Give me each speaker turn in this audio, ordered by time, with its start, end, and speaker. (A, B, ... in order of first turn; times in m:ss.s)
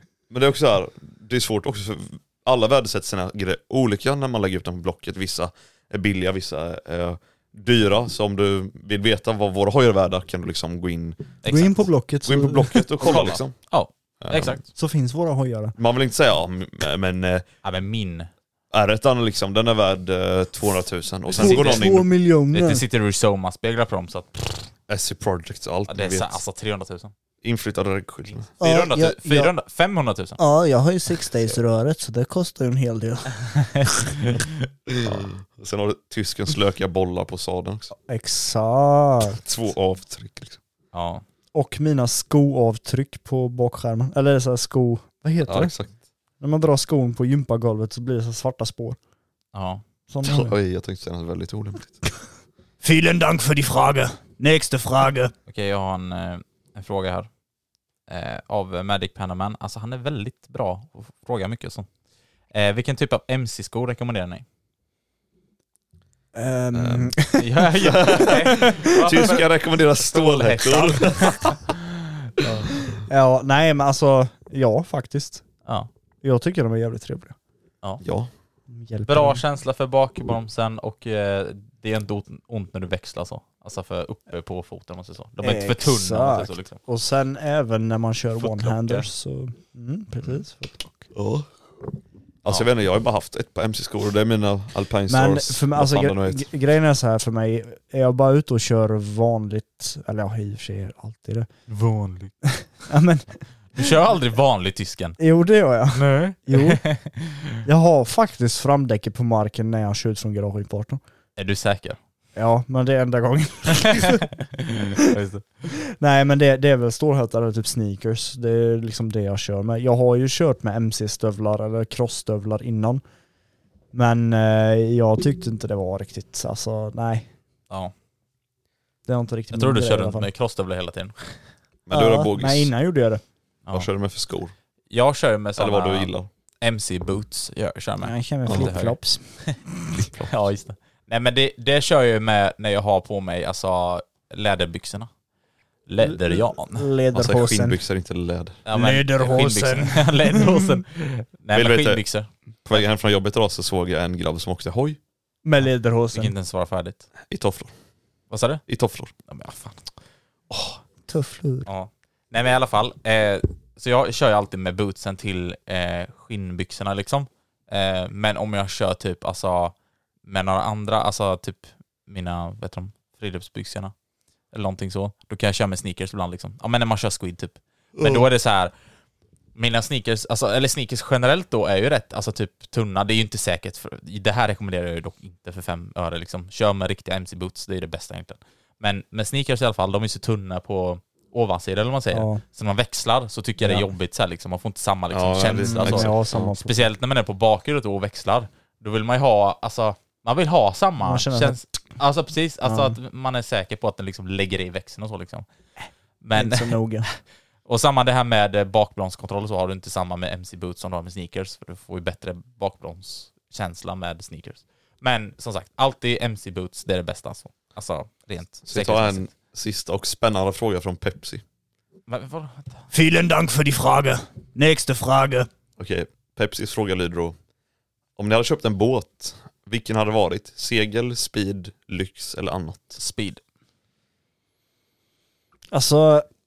0:00.3-0:11.3 A
0:11.4-0:11.9 B
0:11.4-0:13.3 C
0:12.2-0:13.7 A
0:13.0-0:14.6 B
0:14.2-0:14.6 A
0:14.7-0:15.7 C
0:15.8-0:17.4 A
0:17.6-0:18.3 B
0:18.7-0:22.1 A
0:21.3-0:24.7 B
0:21.4-0:22.8 C
0:24.9-0:26.4 A
0:25.9-0:27.1 B
0:27.4-0:28.5 A
0:28.6-0:30.4 B
0:28.6-0:29.5 C
0:30.4-0:33.6 C
0:35.0-0:37.9 A
0:38.0-0:39.4 C
0:39.4-0:40.6 A
0:40.9-0:41.2 B
0:41.5-0:45.7 C
0:45.4-0:46.0 A
0:46.4-0:49.0 C
0:49.5-0:49.8 B
0:50.1-0:50.5 C
0:50.2-0:52.0 A
0:52.8-0:55.3 D
0:55.5-0:57.3 B
0:58.1-1:01.9 B
1:02.5-1:04.4 B
1:06.3-1:08.7 C
1:06.7-1:11.7 A
1:07.3-1:09.4 B
1:10.1-1:11.6 B
1:12.4-1:12.7 B
1:13.1-1:15.4 C
1:16.2-1:17.3 C
1:18.0-1:18.3 A
1:18.7-1:19.4 C
1:19.1-1:26.8 B
1:25.4-1:31.0 C
1:28.4-1:29.1 B
1:31.1-1:31.5 A
1:32.4-1:36.5 A
1:35.1-1:41.5 C
1:41.7-1:42.3 B
1:42.9-1:43.3 C
1:43.7-1:45.2 B
1:45.2-1:46.8 C
1:45.9-1:47.6 B
1:47.6-1:51.0 C
1:51.4-1:52.0 B
1:52.3-1:54.3 C
1:54.8-1:55.4 B
1:56.0-2:03.0 C
2:03.9-2:07.3 C
2:09.0-2:10.3 C
2:09.5-2:11.4 B
2:11.9-2:12.7 A
2:11.9-2:13.2 C
2:13.7-2:14.5 A
2:14.9-2:19.6 B
2:15.6-2:16.3 A
2:18.0-2:19.6 C
2:19.9-2:20.4 A
2:20.2-2:25.1 B
2:25.9-2:26.9 B
2:26.0-2:27.8 C
2:27.1-2:28.6 A
2:28.6-2:32.8 B
2:28.7-2:29.9 D
2:28.8-2:30.4 C
2:31.5-2:32.0 A
2:32.6-2:35.0 A
2:35.4-2:36.3 C
2:36.1-2:37.0 B
2:37.3-2:37.7 A
2:38.3-2:38.6 B
2:38.7-2:39.1 A
2:39.3-2:39.8 B
2:40.5-2:40.8 A
2:41.1-2:41.7 C
2:41.6-2:49.7 B
2:50.2-2:53.9 B
2:54.5-2:58.7 B
2:58.0-2:58.3 A
2:59.5-3:25.4 B
3:12.1-3:12.4 C
3:13.6-3:13.9 C
3:15.1-3:16.5 A
3:15.6-3:16.9 C
3:21.0-3:21.6 C
3:22.6-3:22.9 C
3:26.2-3:39.3 B
3:26.3-3:27.0 C
3:38.6-3:41.4 A
3:42.1-3:42.8 B
3:42.9-3:45.5 D
3:45.8-3:47.4 A
3:48.2-3:53.0 A
3:53.0-3:53.4 B
3:55.7-3:56.2 C